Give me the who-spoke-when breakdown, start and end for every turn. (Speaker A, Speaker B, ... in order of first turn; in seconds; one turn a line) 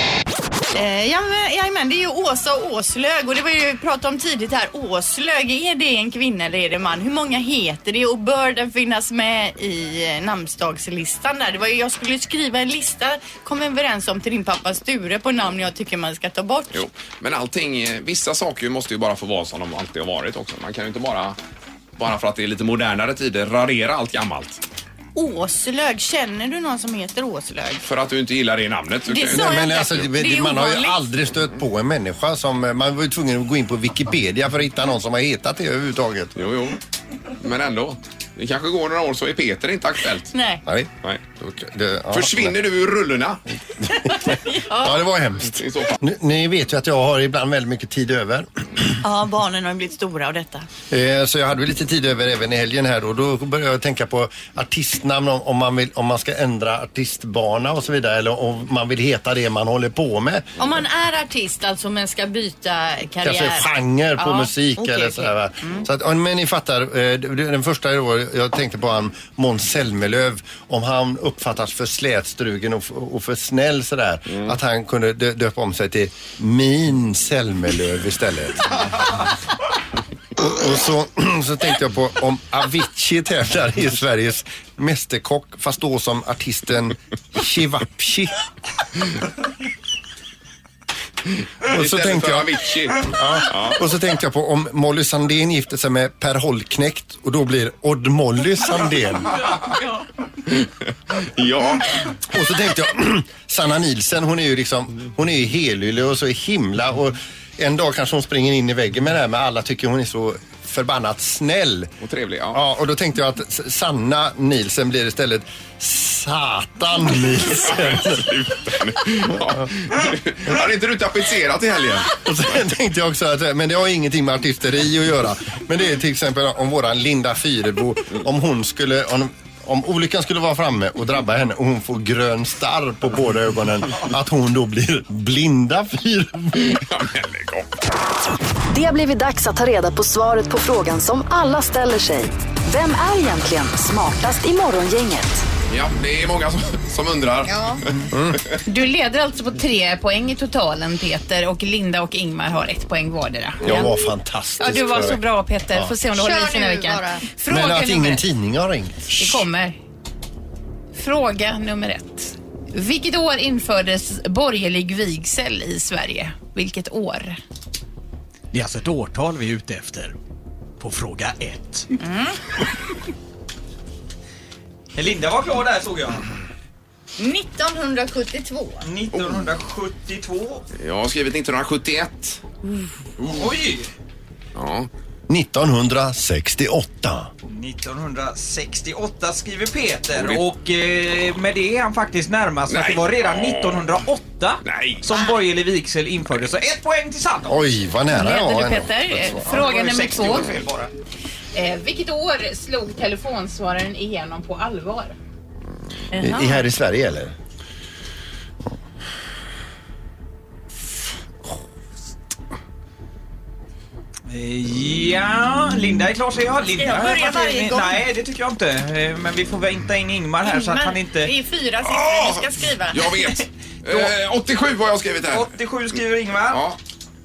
Speaker A: 0.7-16.8
Speaker B: 16.7-21.4
Speaker B: 22.0-24.6
Speaker A: 25.1-27.9
Speaker B: 27.8-30.0
Speaker A: 29.1-31.0
Speaker C: 29.3-36.4
Speaker B: 36.4-36.8
Speaker B: 37.4-40.3
Speaker A: 40.3-40.6
Speaker C: 40.6-42.5
Speaker B: 42.1-43.4
Speaker A: 44.2-45.0
Speaker C: 44.7-48.9
Speaker B: 45.5-46.0
Speaker A: 49.0-50.7
Speaker C: 50.9-60.5
Speaker A: 60.6-65.8
Speaker C: 63.2-78.9
Speaker C: 80.3-88.3
Speaker B: 91.6-93.8
Speaker C: 91.7-99.5
Speaker B: 100.5-102.0
Speaker C: 102.3-111.9
Speaker B: 112.0-112.6
Speaker C: 112.5-118.3
Speaker B: 117.7-122.2
Speaker C: 122.1-136.8
Speaker B: 136.6-137.7
Speaker D: 138.7-145.4
Speaker B: 145.7-147.5
Speaker A: 147.4-147.8
Speaker C: 148.1-148.4
Speaker E: 148.7-153.9
Speaker C: 153.6-155.9
Speaker E: 154.6-158.2
Speaker A: 156.1-157.2
Speaker C: 157.5-159.4
Speaker E: 159.1-159.8
Speaker E: 160.9-167.4
Speaker F: 168.5-170.1
Speaker F: 170.8-171.9
Speaker A: 172.0-172.4
Speaker F: 174.9-176.2
Speaker A: 177.2-178.8
Speaker F: 178.8-180.6
Speaker B: 179.1-179.5
Speaker B: 180.7-182.4
Speaker F: 183.2-183.9
Speaker B: 184.6-184.9
Speaker C: 185.3-187.3
Speaker F: 187.4-197.6
Speaker B: 190.1-190.5
Speaker B: 192.7-194.0
Speaker B: 194.6-195.0
Speaker C: 197.5-199.6
Speaker E: 198.1-200.5
Speaker F: 199.4-200.9
Speaker B: 200.2-200.6
Speaker E: 201.5-205.1
Speaker A: 206.2-206.6
Speaker C: 206.2-207.3
Speaker F: 214.3-221.3
Speaker A: 216.8-218.0
Speaker A: 220.4-223.3
Speaker B: 221.8-225.6
Speaker F: 223.9-224.1
Speaker F: 225.3-226.6
Speaker B: 226.5-226.8